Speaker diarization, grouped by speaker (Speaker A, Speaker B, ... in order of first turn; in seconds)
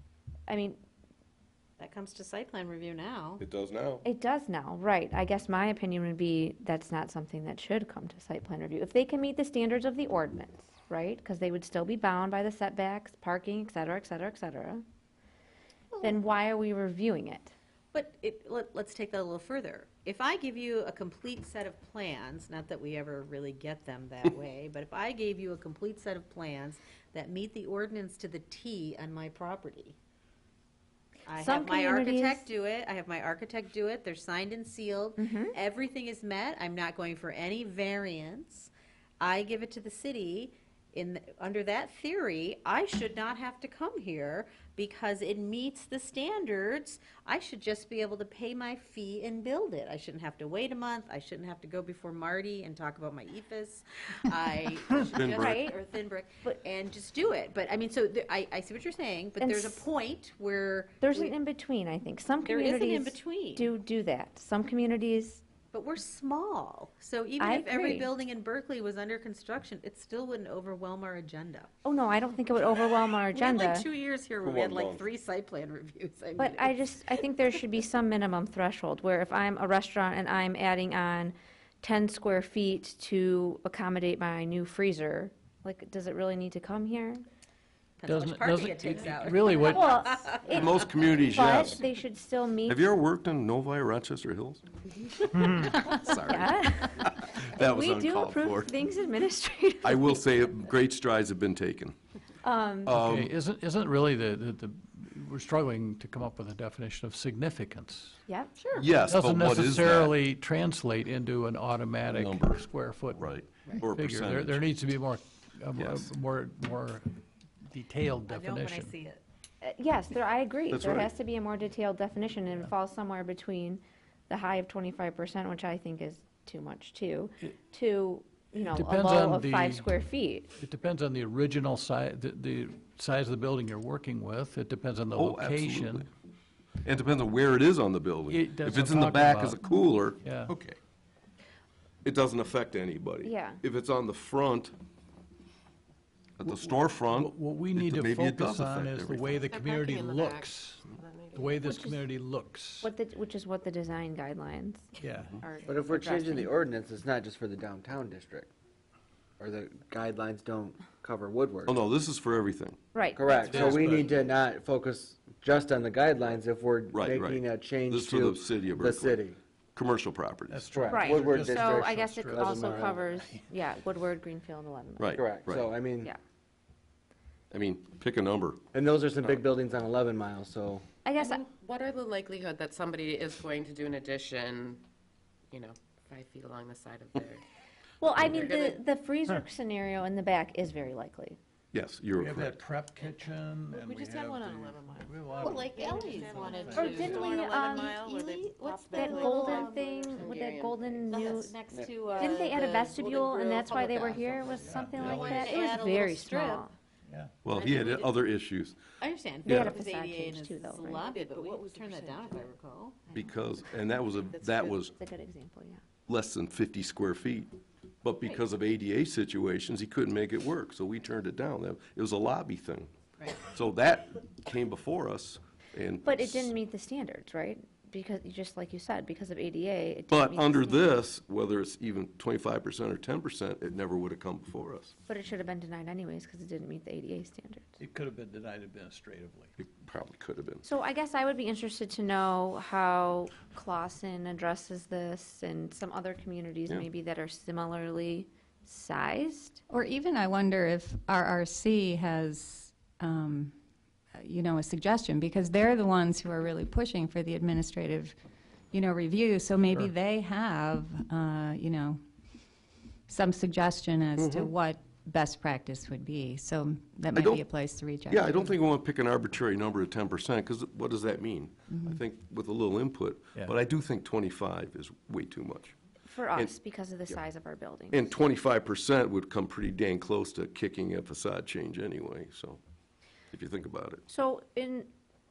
Speaker A: 0.5-0.8, 4.0-14.8, 16.0-17.5, 31.3-32.5, 35.2-35.5, 55.3-55.8, 59.4-59.8, 61.0-65.4, 67.4-68.1, 71.8-73.9, 76.4-87.2, 89.5-92.9, 95.5-100.3, 102.4-103.0, 119.6-130.5, 143.2-143.6, 151.6-152.0, 152.8-156.5, 162.9-163.9, 170.9-175.4, 181.1-181.4, 188.0-191.4, 196.7-198.0, 198.9-201.6, 202.1-206.7, 209.5-211.1, 214.9-215.8, 226.0-231.0, 235.1-237.8, 240.6-249.6, 276.1-278.1, 284.1-284.9
Speaker B: 1.8-3.4, 17.9-29.9, 31.3-61.3, 62.4-63.7, 65.7-71.7, 73.1-76.8, 88.0-90.9, 108.6-108.9, 118.3-119.2, 195.4-200.3, 201.1-206.6, 207.5-208.2, 209.0-213.2, 214.4-214.8
Speaker C: 3.4-4.0, 55.1-55.6, 74.4-75.0, 90.5-91.8, 92.7-94.7, 95.8-98.7, 99.8-102.0, 102.9-103.3, 108.8-110.2, 112.1-114.6, 115.8-116.1, 120.7-121.1, 135.2-136.1, 136.8-140.8, 142.0-144.8, 146.4-149.4, 161.7-162.8, 166.9-169.2, 169.8-170.7, 175.0-175.7, 177.5-178.6, 191.7-192.6, 207.4-208.8, 213.1-214.9, 216.1-222.9, 223.5-226.5, 230.1-234.9, 239.6-240.6, 264.2-264.5, 267.1-267.4, 268.1-275.8, 277.9-282.6, 283.3-284.1
Speaker D: 88.1-90.1, 95.4-95.8, 102.9-108.2, 109.0-119.0, 128.7-129.9, 130.6-136.1, 138.3-139.6, 140.2-140.5, 146.4-152.9, 155.0-155.4, 163.3-164.2, 170.5-173.4, 192.2-197.4, 204.6-205.6, 237.8-239.6
Speaker E: 149.5-151.5, 181.3-184.8, 185.5-187.4, 188.3-188.7, 193.8-195.1, 195.7-199.3, 199.9-200.8
Speaker F: 155.7-158.5, 159.4-161.8, 163.1-169.4, 170.7-173.0, 175.2-176.1, 178.7-180.8, 201.7-202.1
Speaker G: 249.7-253.6, 254.1-258.2, 258.7-268.6, 271.7-272.0